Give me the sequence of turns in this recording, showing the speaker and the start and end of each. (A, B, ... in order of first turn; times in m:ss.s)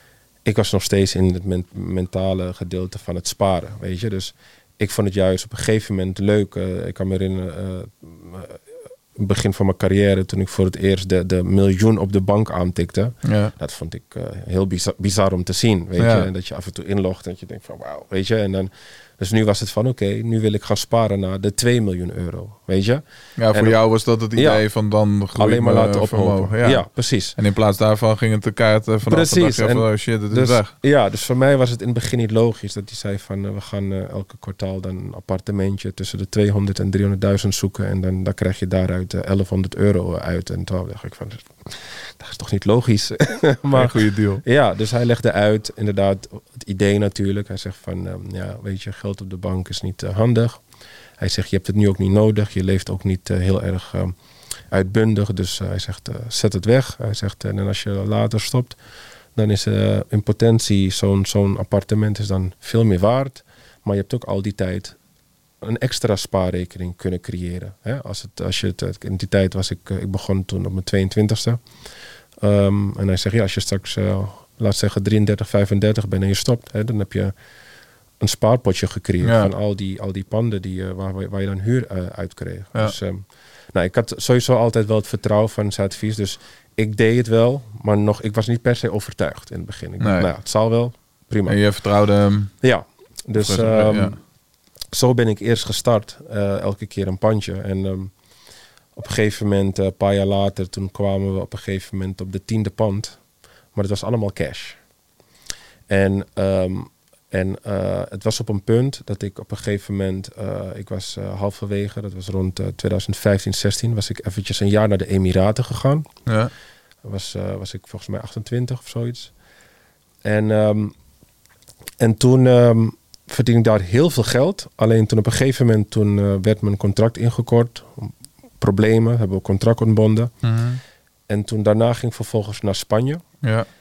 0:00.4-0:23.8 A
0:13.2-0:13.5 B
0:16.0-0:16.3 B
0:23.4-0:30.7 B
0:24.4-0:24.6 A
0:25.4-0:27.4 A
0:29.1-0:50.6 A
0:43.7-0:44.4 B
0:51.2-0:54.2 A
0:54.7-0:58.8 A
0:59.4-1:05.0 A
1:05.6-1:11.6 A
1:12.4-1:17.3 A
1:18.2-1:31.6 A
1:19.2-1:19.5 B
1:30.0-1:30.3 B
1:31.5-1:32.6 B
1:32.6-1:34.2 A
1:33.4-1:34.2 B
1:34.9-1:38.2 A
1:39.0-1:44.8 A
1:45.9-1:56.1 A
1:56.3-1:56.5 B
1:57.0-1:59.3 A
2:00.2-2:00.9 A
2:02.0-2:10.3 A
2:10.4-2:10.8 B
2:11.3-2:13.2 A
2:13.4-2:13.7 B